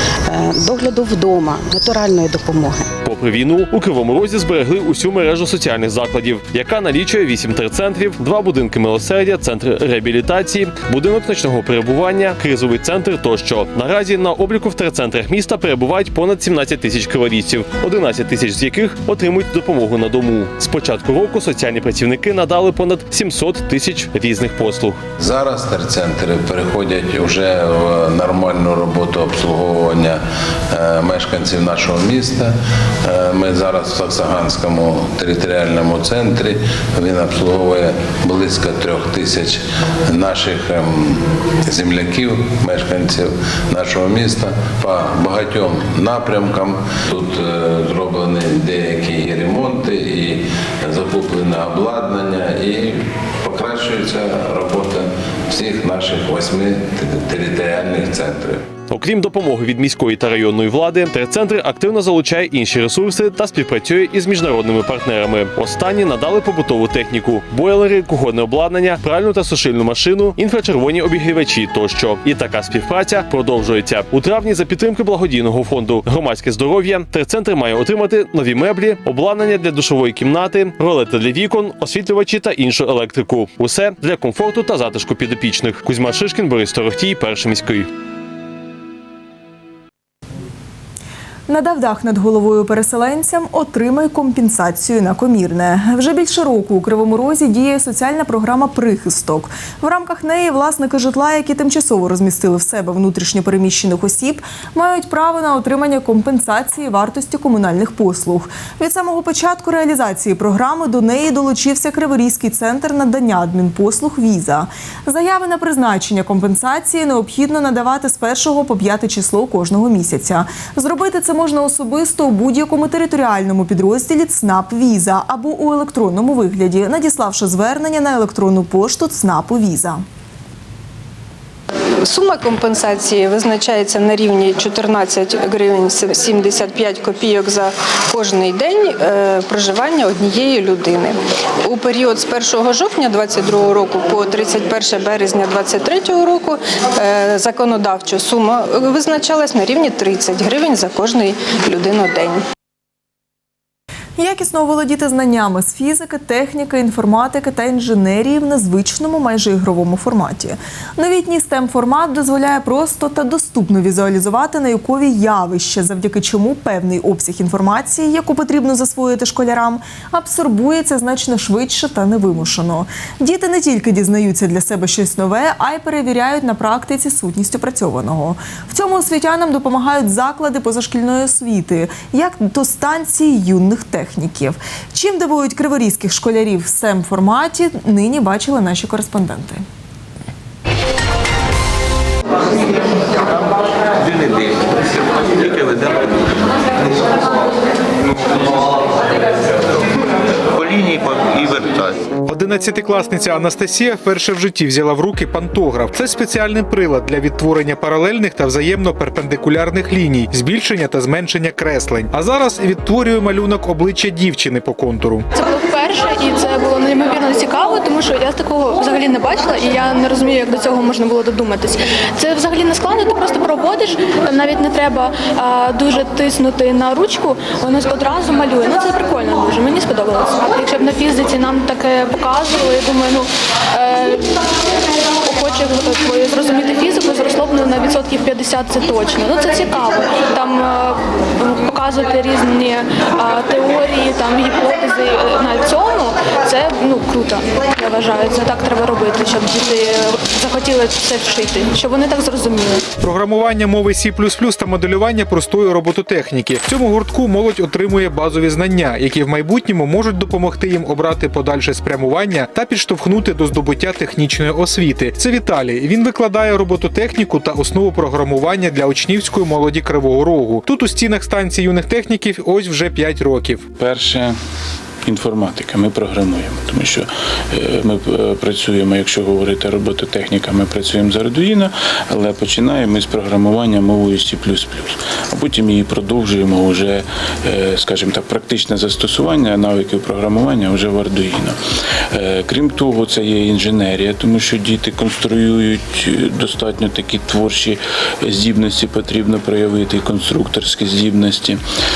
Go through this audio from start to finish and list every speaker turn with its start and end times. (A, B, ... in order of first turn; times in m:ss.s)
0:00.3-0:02.9 A
0:03.0-0:25.0 B
0:25.2-0:58.6 C
0:58.9-1:27.9 B
1:31.5-2:10.0 D
2:12.0-2:32.4 E
2:34.2-3:09.6 D
3:13.8-3:16.2 F
3:18.1-3:18.5 F
3:20.5-3:22.0 F
3:22.3-3:35.3 G
3:35.3-3:54.3 H
3:55.2-4:12.8 H
4:13.0-4:33.7 G
4:33.8-4:34.4 I
4:35.0-5:01.6 I